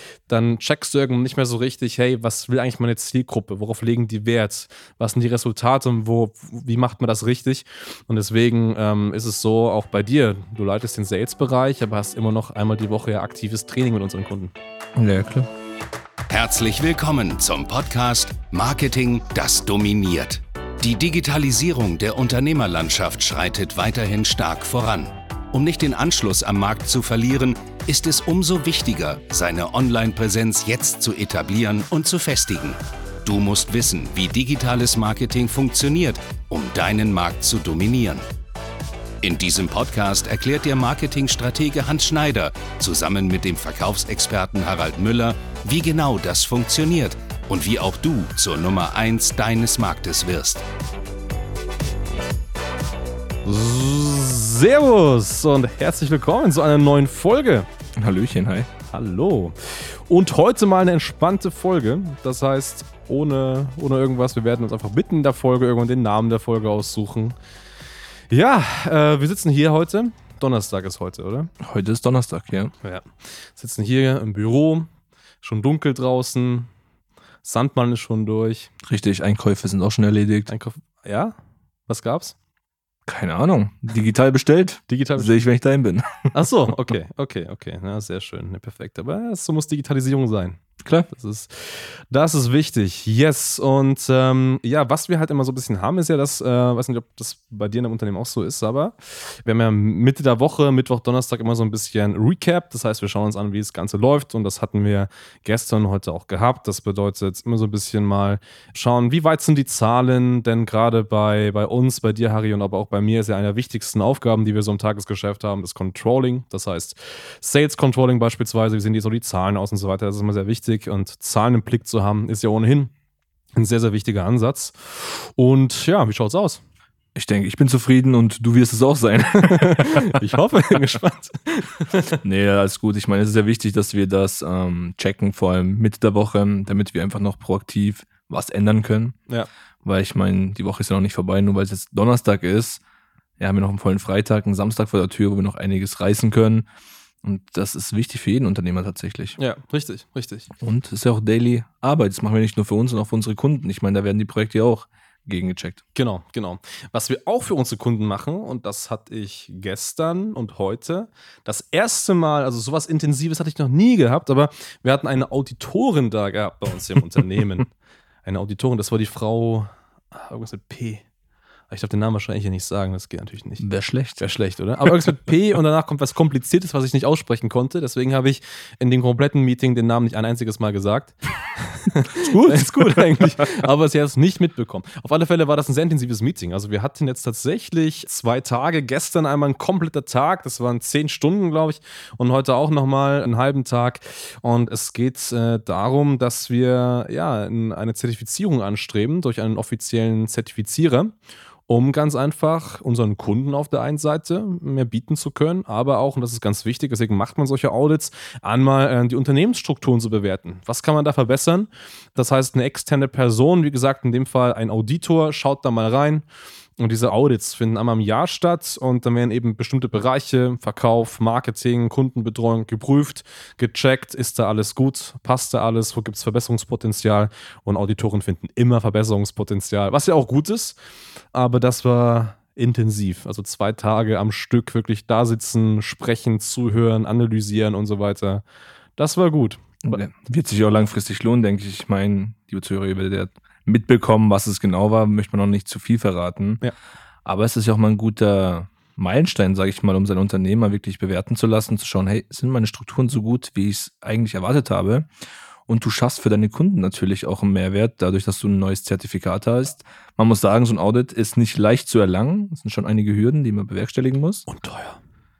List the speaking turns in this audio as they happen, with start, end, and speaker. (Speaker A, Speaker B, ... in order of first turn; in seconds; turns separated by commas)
Speaker A: 0.3-14.5, Speaker B: 15.0-15.5, Speaker C: 16.3-38.2, Speaker C: 39.2-50.6, Speaker A: 53.5-57.7, Speaker B: 58.0-58.7, Speaker A: 58.9-67.3, Speaker A: 68.3-71.5, Speaker B: 71.6-72.7, Speaker A: 72.8-74.9, Speaker A: 75.4-76.7, Speaker A: 77.4-78.7, Speaker B: 78.8-80.5, Speaker A: 80.5-81.4, Speaker A: 81.9-82.4, Speaker B: 83.1-86.3, Speaker A: 84.9-85.5, Speaker A: 86.3-122.9, Speaker A: 123.6-126.6, Speaker B: 127.2-130.2, Speaker A: 129.4-132.2, Speaker B: 132.2-139.2, Speaker B: 139.8-142.8, Speaker B: 143.4-146.7, Speaker B: 147.2-149.4, Speaker A: 149.4-150.5, Speaker B: 150.6-155.8, Speaker A: 155.9-167.7, Speaker A: 168.2-171.0, Speaker A: 171.7-173.7, Speaker B: 173.6-174.2, Speaker A: 174.2-201.2, Speaker B: 182.2-183.1, Speaker A: 201.7-216.2, Speaker A: 216.8-230.8, Speaker A: 231.3-238.4, Speaker A: 239.0-240.0, Speaker B: 239.8-246.6, Speaker B: 247.2-255.1, Speaker B: 255.7-264.5, Speaker A: 264.5-265.0